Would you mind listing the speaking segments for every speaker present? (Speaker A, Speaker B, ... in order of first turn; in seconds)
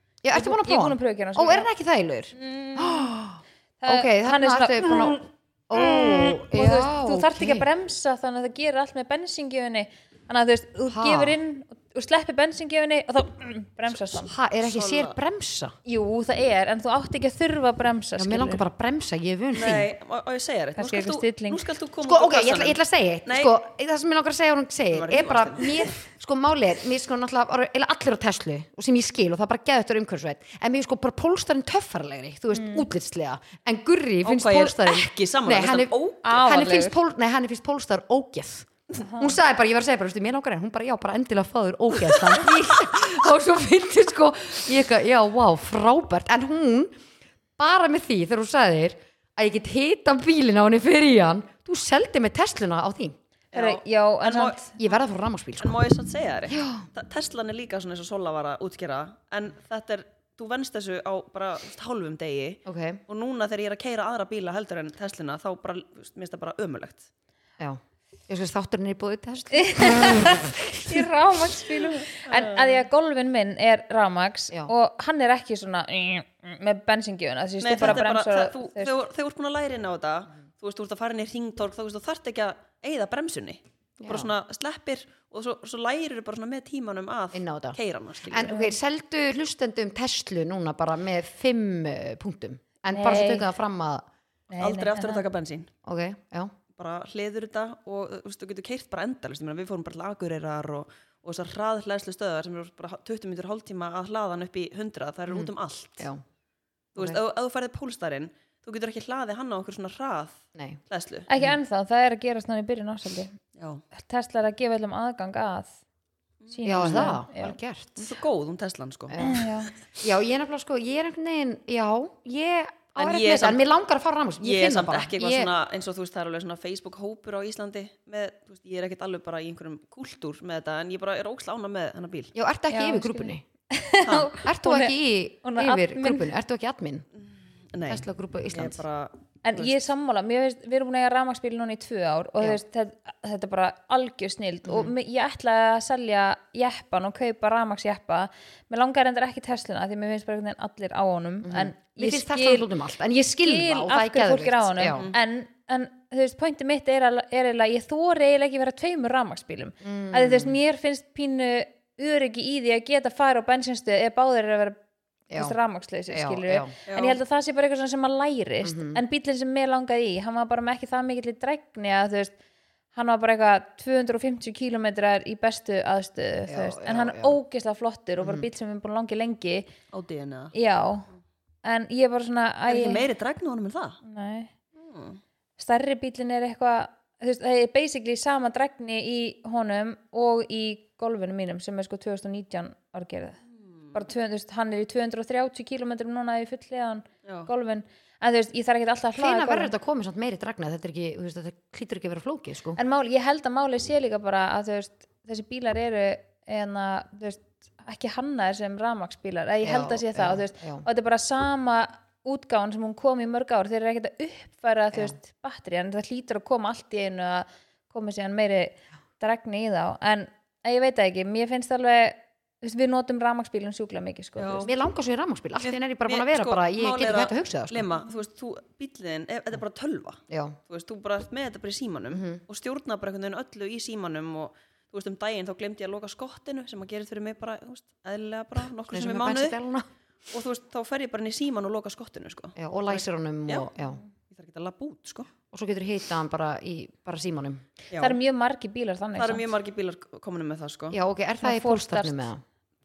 Speaker A: 0.2-7.7, 10.9-11.4, 14.2-15.8, 18.2-19.9, 22.0-47.0, 47.6-53.2, 54.8-55.8, 56.5-56.9, 62.7-63.0, 67.6-71.1, 84.0-84.3, 87.3-94.0, 95.8-96.5, 105.3-106.2, 110.5-110.8, 116.7-118.1, 119.1-119.5, 120.0-125.5, 132.3-133.4, 134.3-137.1, 137.9-138.8, 144.7-144.9, 151.4-155.1, 159.8-160.6, 165.3-165.6, 166.1-166.7, 168.6-169.0, 176.5-177.4, 178.2-178.5, 199.2-202.8, 209.6-210.9, 224.7-227.9, 230.3-230.6, 232.1-232.4, 238.9-239.9, 242.6-244.0, 245.5-247.7, 250.9-252.4
Speaker B: 0.3-1.7, 2.3-3.1, 3.8-5.2, 5.8-14.3, 15.9-18.6, 20.8-21.7, 32.5-32.9, 36.2-37.0, 39.1-39.3, 53.5-54.7, 69.5-78.9, 88.4-88.8, 92.9-93.5, 94.5-95.2, 111.3-113.4, 113.9-115.8, 116.5-117.6, 119.2-119.7, 132.7-136.3, 139.4-152.7, 153.4-164.8, 165.3-172.3, 172.9-179.7, 180.5-181.1, 181.6-183.1, 184.0-184.5, 185.6-193.4, 193.9-199.7, 202.8-224.7, 248.0-249.5, 251.4-252.3
Speaker C: 14.6-15.2, 19.5-23.5, 24.9-25.9, 34.2-36.3, 53.5-54.8, 55.6-67.1, 72.2-72.8, 77.6-88.5, 94.6-95.7, 96.8-106.1, 107.0-111.3, 113.6-113.8, 116.4-117.1, 118.0-119.4, 123.0-123.6, 124.4-132.3, 134.0-134.3, 137.2-139.9, 166.9-167.2, 179.9-180.5, 182.7-184.0, 184.8-185.2, 193.6-194.0, 224.4-224.7, 225.6-239.6, 240.3-243.7, 244.3-245.3, 247.9-248.2, 249.2-251.0